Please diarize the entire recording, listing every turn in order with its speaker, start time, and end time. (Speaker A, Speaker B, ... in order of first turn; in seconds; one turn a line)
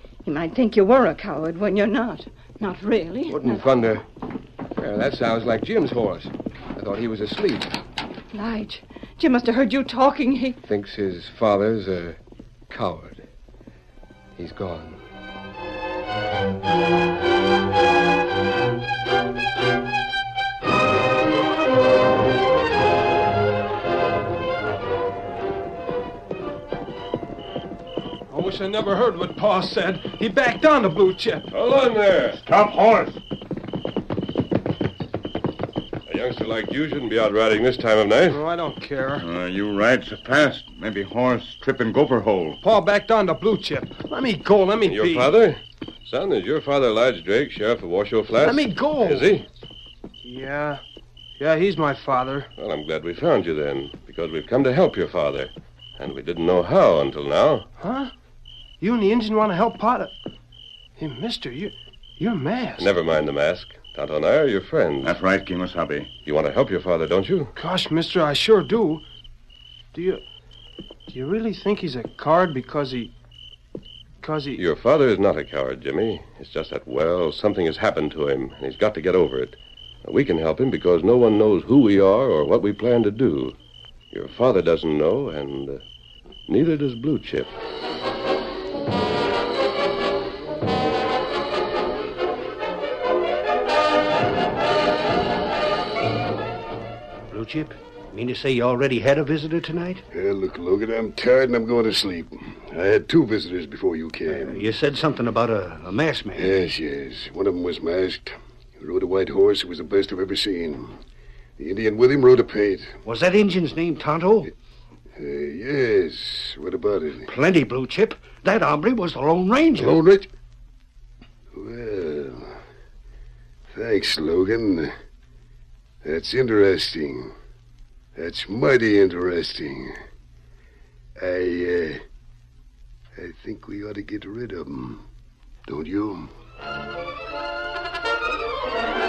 Speaker A: 0.2-3.7
Speaker B: 3.3-4.0
Speaker B: 4.8-7.8
Speaker A: 8.3-10.6
Speaker B: 10.7-12.2
Speaker B: 12.7-13.2
Speaker B: 14.4-15.0
Speaker C: 28.3-31.5
Speaker D: 31.5-32.4
Speaker E: 32.4-33.2
Speaker D: 36.1-38.4
Speaker C: 38.3-39.2
Speaker E: 39.2-42.6
Speaker C: 42.6-45.3
Speaker D: 44.9-49.5
Speaker C: 48.3-49.3
Speaker C: 50.2-50.8
Speaker C: 51.4-52.5
Speaker D: 52.6-57.7
Speaker C: 57.8-58.1
Speaker C: 58.8-60.1
Speaker C: 61.0-62.9
Speaker D: 62.8-65.2
Speaker E: 65.0-66.1
Speaker D: 66.2-67.5
Speaker C: 67.6-69.0
Speaker C: 69.9-70.2
Speaker C: 71.1-73.1
Speaker C: 74.2-74.6
Speaker D: 74.6-83.5
Speaker D: 84.1-85.8
Speaker D: 86.5-87.5
Speaker F: 97.3-100.0
Speaker G: 100.1-104.7
Speaker F: 104.3-106.5
Speaker G: 106.3-111.0
Speaker G: 111.6-112.9
Speaker F: 113.0-114.5
Speaker G: 115.2-117.3
Speaker F: 117.3-120.0
Speaker G: 119.8-120.3
Speaker G: 121.5-122.5
Speaker G: 123.7-124.9
Speaker G: 126.0-127.3
Speaker G: 128.2-129.9
Speaker G: 131.2-132.0
Speaker G: 133.2-135.1
Speaker G: 135.7-136.3